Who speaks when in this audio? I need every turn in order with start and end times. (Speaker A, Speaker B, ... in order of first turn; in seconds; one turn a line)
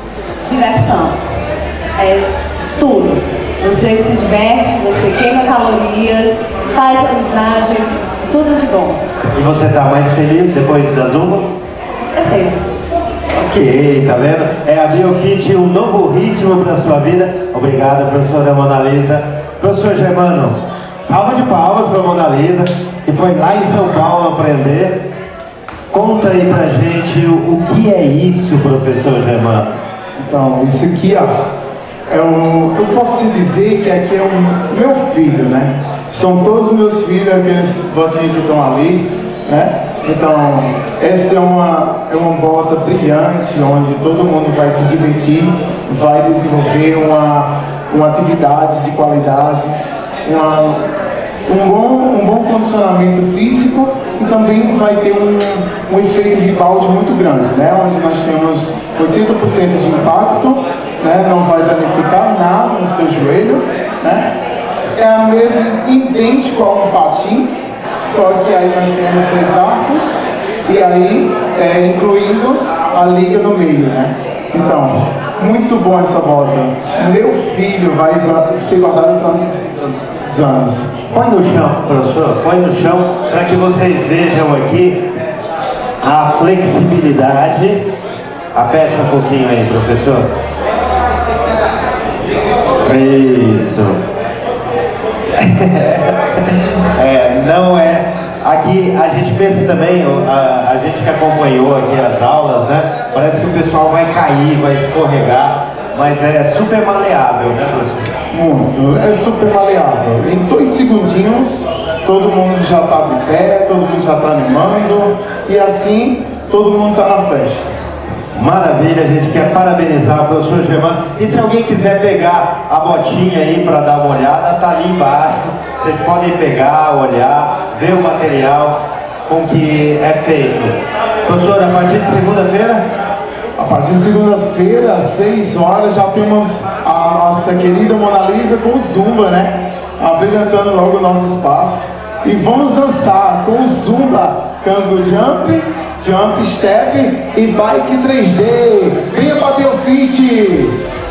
Speaker A: 0.5-1.2
Speaker A: 2.0-9.0
Speaker B: 9.3-11.5
Speaker A: 12.2-12.6
Speaker B: 13.3-25.1
Speaker B: 25.9-29.7
Speaker C: 30.2-31.3
Speaker C: 32.1-50.8
Speaker C: 51.5-64.3
Speaker C: 65.0-70.1
Speaker C: 70.7-80.9
Speaker B: 81.1-85.1
Speaker B: 86.0-87.9
Speaker B: 88.5-90.3
Speaker B: 92.8-94.0
Speaker B: 95.3-108.1
Speaker C: 108.3-117.7
Speaker B: 118.3-132.8
Speaker C: 133.6-150.8